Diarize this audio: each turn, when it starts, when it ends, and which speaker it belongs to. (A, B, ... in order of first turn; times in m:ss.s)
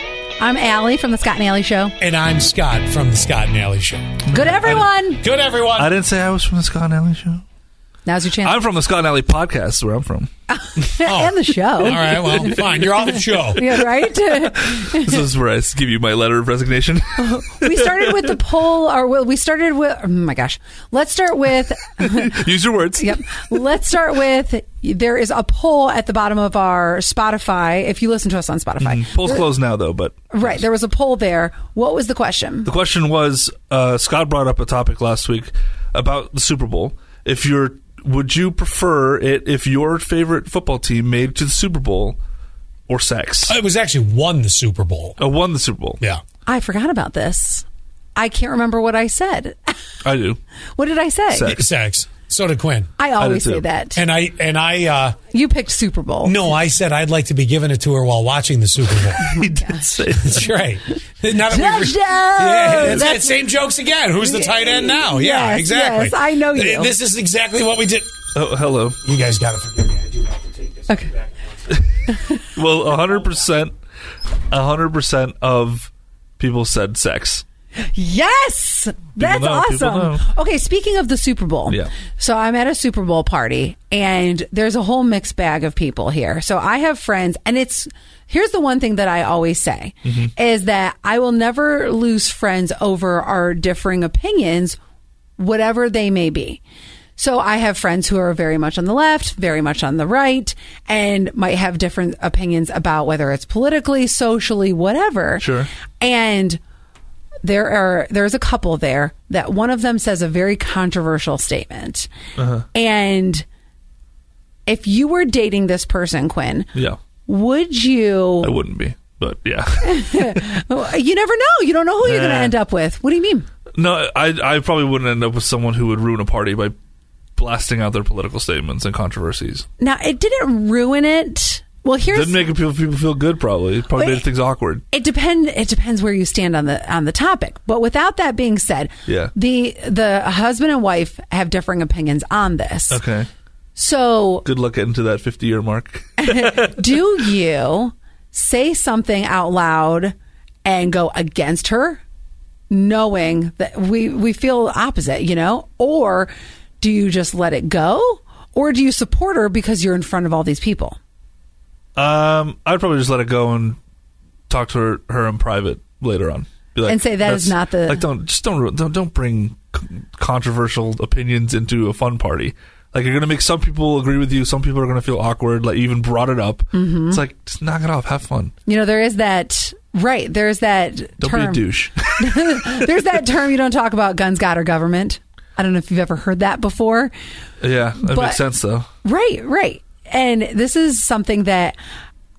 0:00.4-0:01.9 A
0:02.0-0:05.9 B
0:04.3-0:05.2 A
0:04.3-0:04.7 C
0:05.8-0:07.4 C
0:08.0-0:08.6 A
0:08.4-0:10.3 C
0:10.5-0:12.6 A
0:11.0-0:13.6 B
0:12.0-0:12.8 C
0:13.5-0:15.2 A
0:14.3-0:18.2 C
0:17.2-0:22.4 A
0:22.0-0:23.5 C
0:23.0-0:29.5 A
0:28.8-0:30.3 C
0:30.3-0:32.7 A
0:32.6-0:42.2 C
0:42.9-0:43.5 C
0:43.5-0:45.2 B
0:45.2-0:46.0 C
0:46.4-0:49.7 A
0:50.0-0:50.4 C
0:50.8-0:51.6 A
0:51.3-0:51.6 C
0:51.4-0:52.9 B
0:53.0-0:54.0 A
0:53.2-0:53.6 C
0:54.0-0:55.2 B
0:55.3-0:56.4 A
0:56.2-0:59.3 B
0:59.2-1:00.5 C
0:59.2-1:00.0 A
1:00.2-1:08.1 B
1:01.5-1:03.4 A
1:04.2-1:06.9 A
1:08.3-1:09.0 C
1:09.0-1:11.5 B
1:12.1-1:12.4 A
1:12.4-1:13.7 C
1:14.5-1:17.4 C
1:17.9-1:34.8 A
1:19.2-1:20.3 C
1:30.0-1:30.3 C
1:35.4-1:36.6 A
1:37.2-1:45.5 A
1:45.4-1:45.7 C
1:46.0-1:46.6 A
1:47.4-1:52.1 A
1:52.4-1:52.7 C
1:52.7-1:53.4 A
1:54.7-1:56.7 A
1:57.3-1:58.5 A
1:58.4-2:00.4 C
1:59.8-2:03.4 A
2:02.0-2:02.5 C
2:03.8-2:06.7 C
2:07.4-2:09.6 C
2:09.8-2:12.4 A
2:12.1-2:14.8 C
2:13.9-2:14.3 A
2:14.9-2:23.0 A
2:19.1-2:19.3 C
2:22.9-2:23.3 C
2:23.8-2:24.4 A
2:24.4-2:27.0 C
2:26.2-2:30.1 A
2:30.6-2:32.0 A
2:32.7-2:41.0 A
2:42.0-2:43.8 C
2:44.5-2:58.5 C
2:46.8-2:48.0 A
2:56.7-2:57.2 A
2:58.7-3:07.1 A
3:01.2-3:02.9 C
3:07.6-3:08.9 C
3:08.0-3:08.4 A
3:09.0-3:11.8 A